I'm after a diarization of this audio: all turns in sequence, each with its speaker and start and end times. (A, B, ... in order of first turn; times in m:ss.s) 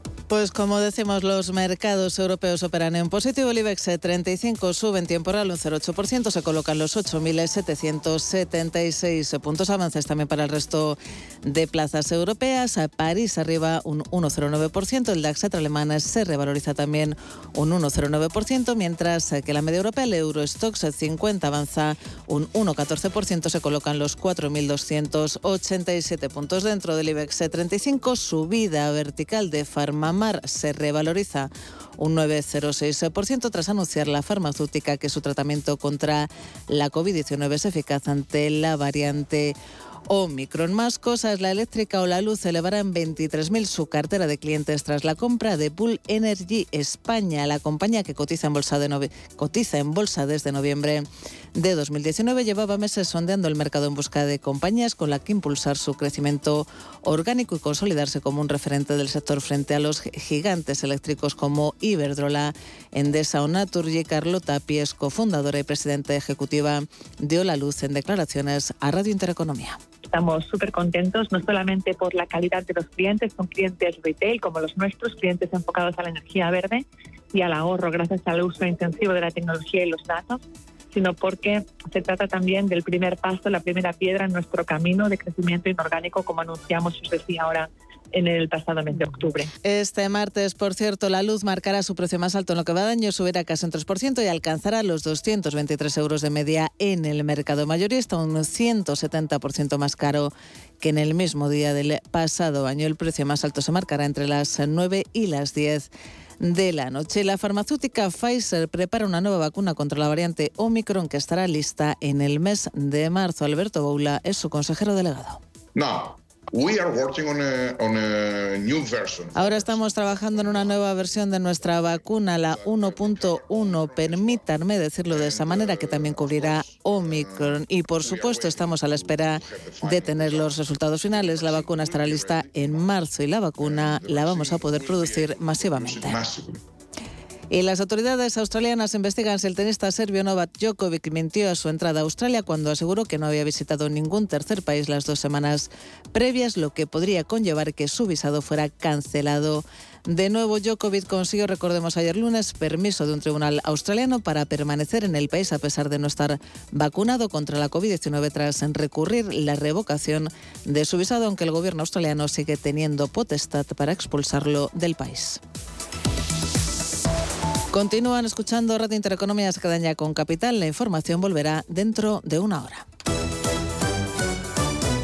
0:00.3-0:39.5 A
0:40.1-0:51.0 A
0:51.6-1:09.8 A
1:10.1-1:29.5 B
1:29.6-1:45.9 A
1:46.4-1:55.4 A
1:55.7-2:13.0 C
1:59.3-2:16.2 A
2:13.6-2:16.6 C
2:17.5-2:45.4 A
2:47.7-2:52.8 A